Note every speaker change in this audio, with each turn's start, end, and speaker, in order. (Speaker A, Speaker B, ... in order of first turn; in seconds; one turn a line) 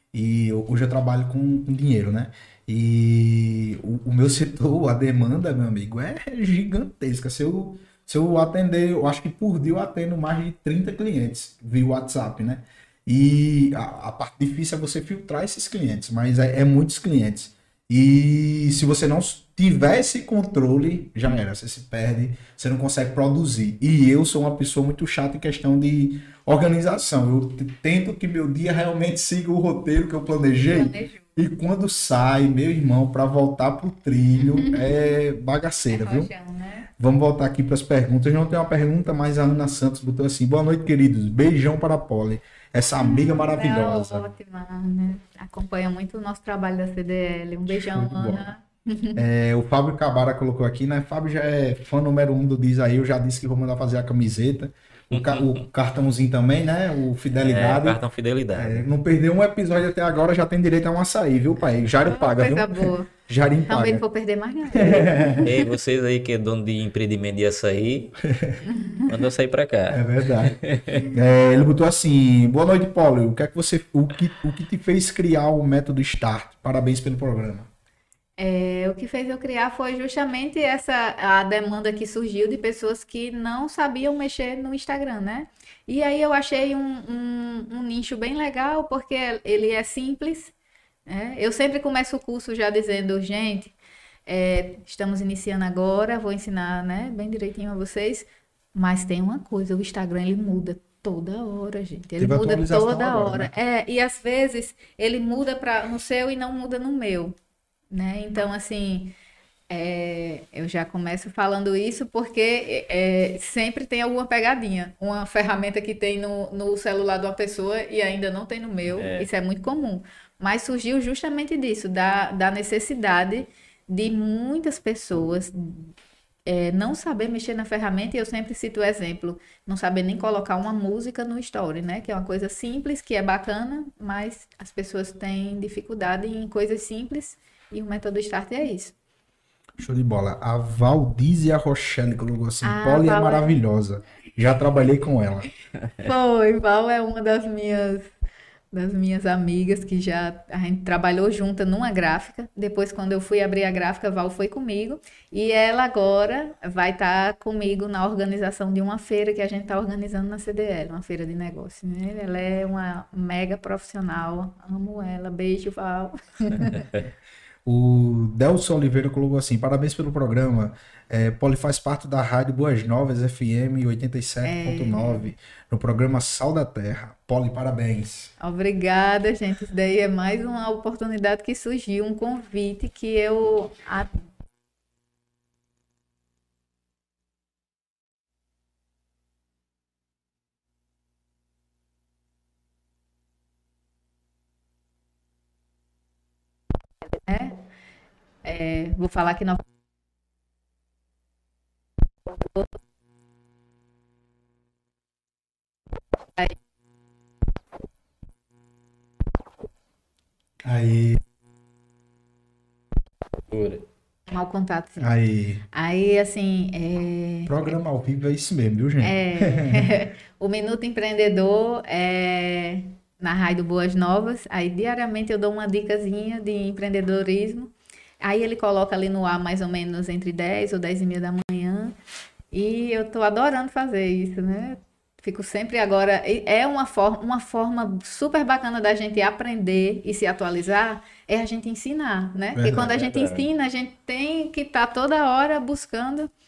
Speaker A: 0.1-36.3
Speaker B: 30.7-31.3
Speaker B: 34.4-35.0
Speaker B: 35.9-36.9
Speaker A: 37.0-44.2
Speaker B: 43.0-49.2
Speaker A: 47.7-48.4
Speaker A: 49.2-58.0
Speaker C: 55.1-55.7
Speaker C: 57.4-58.8
Speaker A: 58.5-64.0
Speaker B: 62.0-63.1
Speaker B: 63.7-65.6
Speaker A: 64.7-65.5
Speaker C: 65.5-68.2
Speaker A: 68.2-68.6
Speaker B: 68.7-69.1
Speaker C: 69.1-71.1
Speaker A: 69.9-77.7
Speaker B: 78.4-90.5
Speaker B: 91.1-93.7
Speaker B: 94.3-107.4
Speaker A: 102.2-103.5
Speaker B: 107.9-109.2
Speaker B: 109.7-125.9
Speaker C: 118.9-119.3
Speaker B: 126.5-138.9
Speaker A: 139.8-145.5
Speaker B: 142.6-143.6
Speaker B: 146.0-148.1
Speaker B: 148.7-167.0
Speaker A: 167.7-178.3
Speaker B: 174.4-175.3
Speaker B: 178.4-184.2
Speaker B: 197.1-197.7
Speaker B: 198.4-199.6
Speaker B: 202.3-202.7
Speaker A: 210.6-211.2
Speaker C: 213.5-213.8
Speaker B: 214.3-215.1
Speaker A: 215.0-215.6
Speaker B: 215.7-217.7
Speaker A: 217.5-219.9
Speaker B: 219.0-232.0
Speaker B: 232.5-246.3
Speaker A: 242.6-243.0
Speaker C: 242.8-243.4